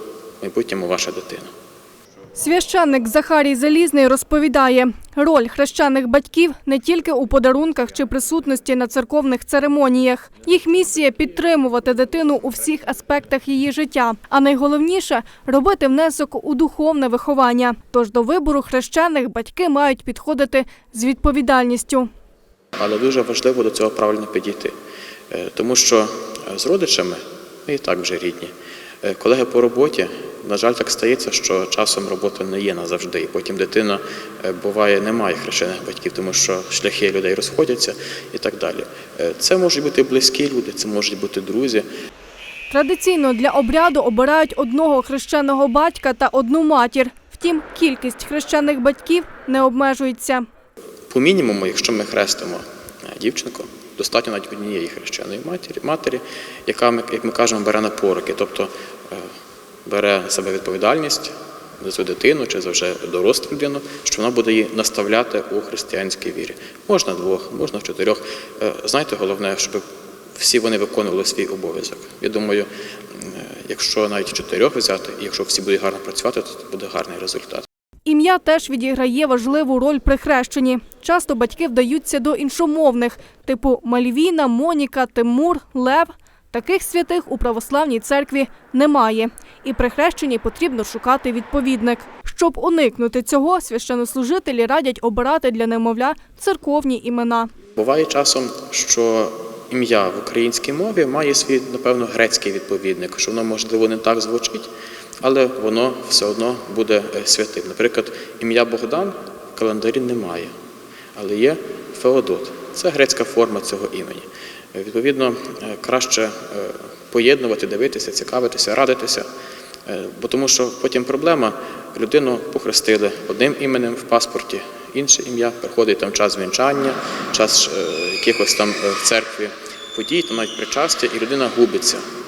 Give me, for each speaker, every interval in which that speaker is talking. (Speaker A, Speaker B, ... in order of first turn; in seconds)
Speaker A: 0.4-1.5, 22.8-24.7, 25.3-41.8, 51.1-59.3, 59.9-69.8, 70.4-72.7, 73.2-77.7, 97.8-104.7, 105.2-110.5, 111.2-119.2, 119.9-132.0
Speaker B: 2.4-22.1, 42.7-50.4, 78.0-97.5